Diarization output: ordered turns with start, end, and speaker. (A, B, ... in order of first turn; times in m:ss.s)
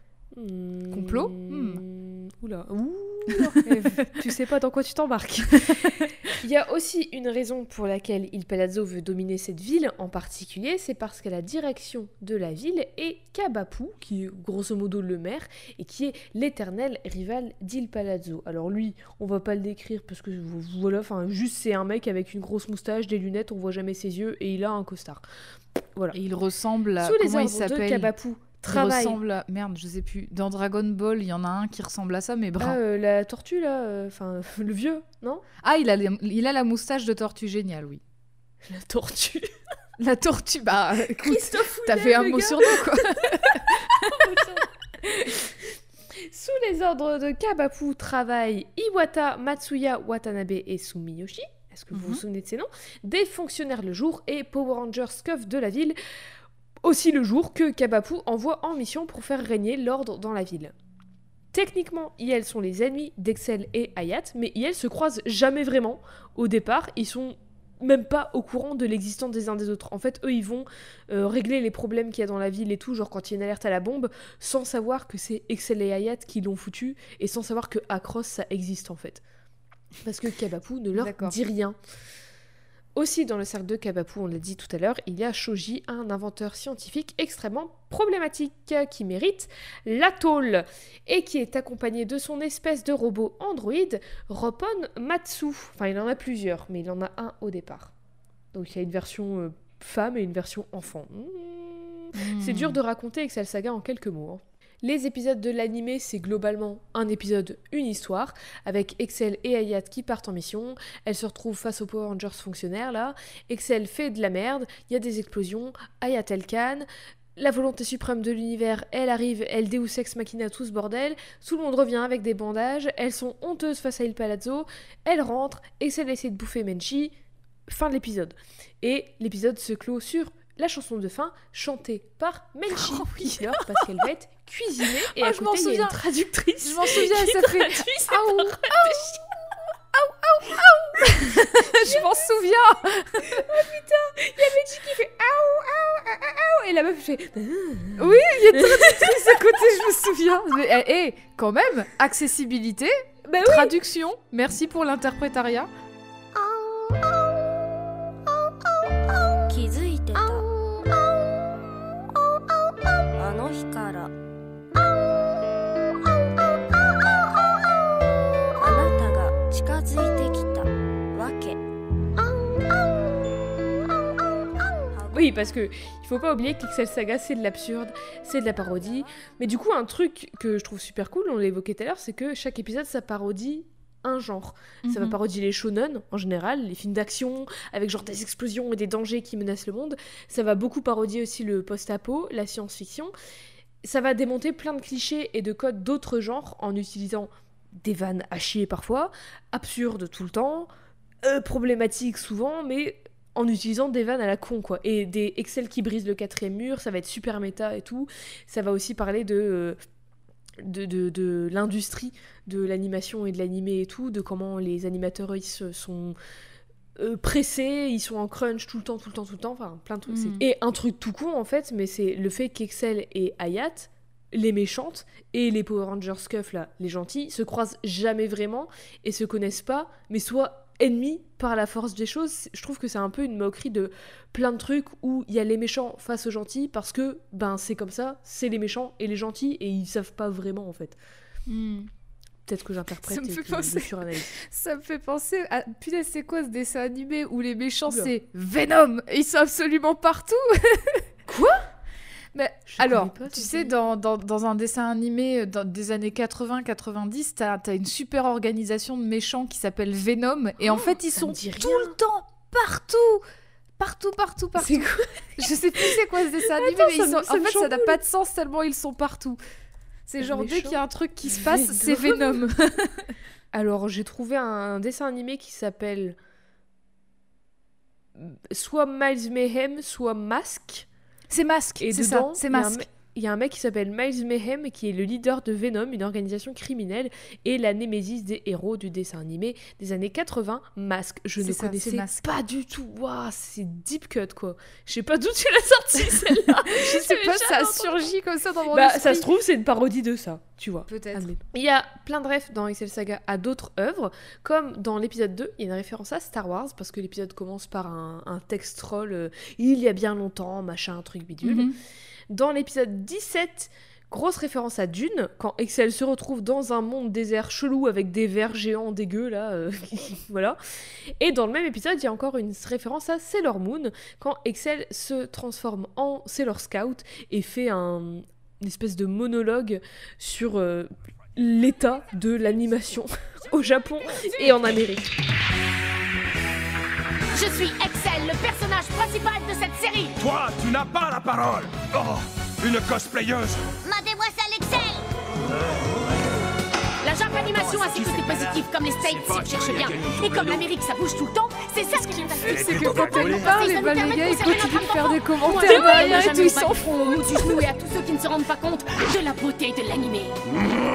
0:00.3-0:25.2 A
0:00.9-0:01.8 B
0:03.3-0:04.2 B
0:25.8-0:26.2 A
0:26.1-0:28.1 B
0:27.0-0:29.2 A
0:28.6-0:32.8 B
0:32.6-0:35.4 A
0:35.6-0:38.0 B
0:38.6-0:39.5 A
0:40.0-0:44.4 B
0:41.2-0:56.0 A
0:51.9-0:52.2 B
0:56.8-1:00.7 A
1:01.5-1:19.2 A
1:20.0-1:21.8 A
1:21.0-1:21.3 B
1:23.0-1:37.9 A
1:38.5-2:07.1 A
1:42.1-1:42.8 B
2:07.7-2:19.4 A
2:12.7-2:13.9 B
2:14.8-2:16.0 B
2:16.6-2:19.1 B
2:19.9-2:23.5 B
2:21.3-2:22.0 A
2:23.2-2:29.5 A
2:28.0-2:35.7 B
2:33.2-2:33.8 A
2:36.3-2:37.0 C
2:39.5-2:40.5 C
2:43.1-2:44.1 C
2:48.6-2:51.6 C
2:52.2-2:52.5 C
2:54.9-2:55.3 C
2:55.1-3:13.1 A
3:04.8-3:05.2 B
3:13.8-3:20.7 A
3:21.2-3:29.8 A
3:30.6-3:36.2 A
3:37.0-4:01.0 A
3:40.1-3:40.4 B
4:01.5-4:01.9 B
4:02.5-4:04.3 A
4:03.1-4:11.0 B
4:07.8-4:08.1 A
4:11.3-4:11.7 A
4:12.3-4:23.2 B
4:12.7-4:13.7 A
4:20.7-4:22.0 A
4:23.8-4:29.4 B
4:24.6-4:25.2 A
4:25.8-4:28.0 A
4:30.1-4:33.1 B
4:30.2-4:32.4 A
4:33.5-4:36.2 A
4:38.2-4:40.9 A
4:41.3-4:42.8 B
4:41.8-4:58.1 A
4:51.4-4:52.3 B
4:56.6-4:59.3 B
4:58.7-5:11.7 A
5:00.9-5:01.3 B
5:11.4-5:11.7 B
5:12.3-5:20.6 A
5:21.2-5:35.1 A
5:37.3-5:40.1 D
5:40.2-5:43.7 E
5:43.8-5:45.0 D
5:47.0-6:00.7 D
5:47.5-5:50.7 E
5:52.2-5:57.7 B
5:52.4-5:53.6 E